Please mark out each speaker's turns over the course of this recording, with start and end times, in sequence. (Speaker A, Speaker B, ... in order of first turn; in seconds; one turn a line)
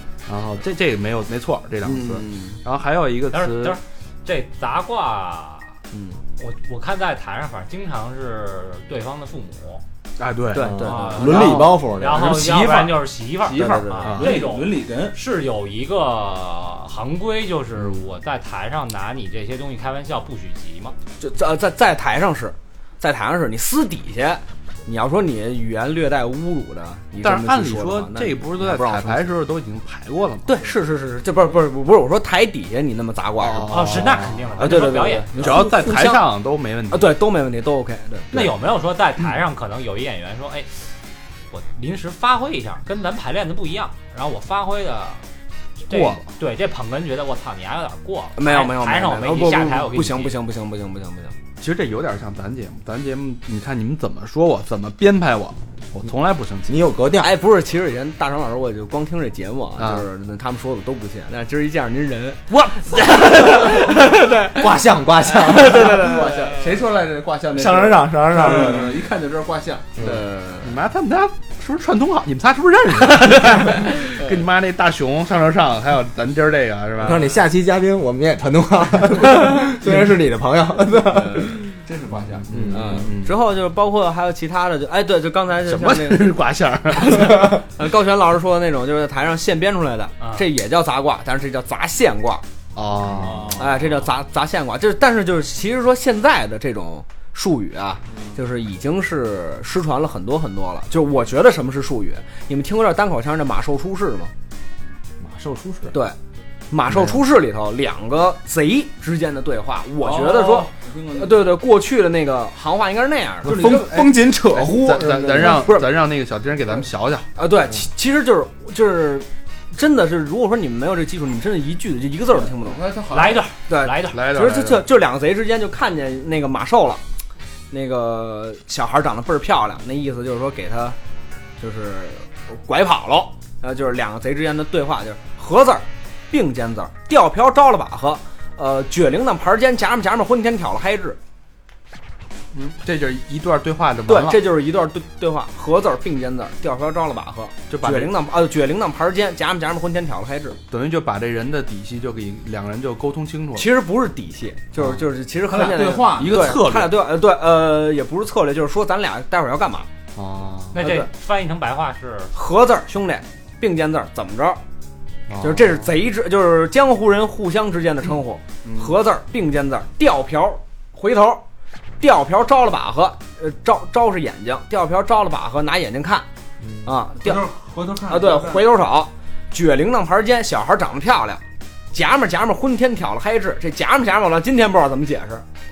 Speaker A: 0.3-3.8
Speaker B: 1.9-2.6
Speaker C: 3.3-5.8
Speaker B: 5.9-6.2
Speaker C: 6.4-9.8
Speaker A: 10.2-10.9
Speaker B: 10.5-11.7
Speaker D: 10.6-12.3
Speaker C: 10.9-21.0
Speaker E: 11.0-11.6
Speaker A: 12.1-12.9
Speaker E: 13.4-15.2
Speaker B: 13.7-14.2
Speaker A: 14.0-14.4
Speaker B: 21.2-29.3
Speaker A: 27.2-30.7
Speaker B: 30.4-33.9
Speaker A: 33.4-37.2
Speaker C: 33.7-35.3
Speaker B: 34.6-36.2
Speaker B: 36.9-38.3
Speaker C: 38.3-40.9
Speaker C: 41.5-45.2
Speaker C: 45.9-50.4
Speaker A: 45.9-46.2
Speaker B: 48.4-51.4
Speaker A: 51.6-56.8
Speaker D: 56.7-57.4
Speaker B: 57.2-64.7
Speaker A: 59.8-60.1
Speaker A: 62.5-63.2
Speaker D: 64.5-66.3
Speaker B: 65.3-66.7
Speaker E: 65.7-70.1
Speaker D: 67.5-68.9
Speaker B: 70.0-70.8
Speaker A: 70.6-77.4
Speaker B: 73.2-74.4
Speaker D: 77.0-81.7
Speaker B: 81.1-81.5
Speaker E: 81.8-82.6
Speaker A: 82.1-83.3
Speaker D: 82.5-83.0
Speaker B: 82.7-86.3
Speaker A: 85.7-87.6
Speaker B: 86.9-92.4
Speaker A: 92.8-93.6
Speaker E: 93.1-94.0
Speaker B: 93.6-104.3
Speaker E: 98.1-98.4
Speaker D: 105.2-106.0
Speaker B: 106.7-113.6
Speaker A: 106.9-107.2
Speaker E: 110.0-111.4
Speaker D: 113.4-115.8
Speaker E: 113.5-114.1
Speaker A: 114.5-117.3
Speaker B: 115.6-115.9
Speaker B: 117.4-122.8
Speaker E: 122.3-123.5
Speaker C: 123.1-124.2
Speaker B: 123.7-127.0
Speaker A: 124.1-124.9
Speaker B: 127.7-131.0
Speaker B: 131.6-141.2
Speaker A: 142.5-144.4
Speaker B: 144.1-150.6
Speaker A: 147.7-148.1
Speaker A: 150.7-153.7
Speaker B: 153.6-159.9
Speaker E: 155.4-156.7
Speaker A: 156.2-157.0
Speaker A: 160.2-160.8
Speaker C: 160.7-162.3
Speaker B: 160.8-161.1
Speaker B: 162.3-164.6
Speaker A: 165.3-165.9
Speaker B: 165.4-171.4
Speaker B: 172.0-176.3
Speaker D: 176.6-176.9
Speaker B: 176.8-177.5
Speaker E: 177.1-178.7
Speaker B: 178.1-185.4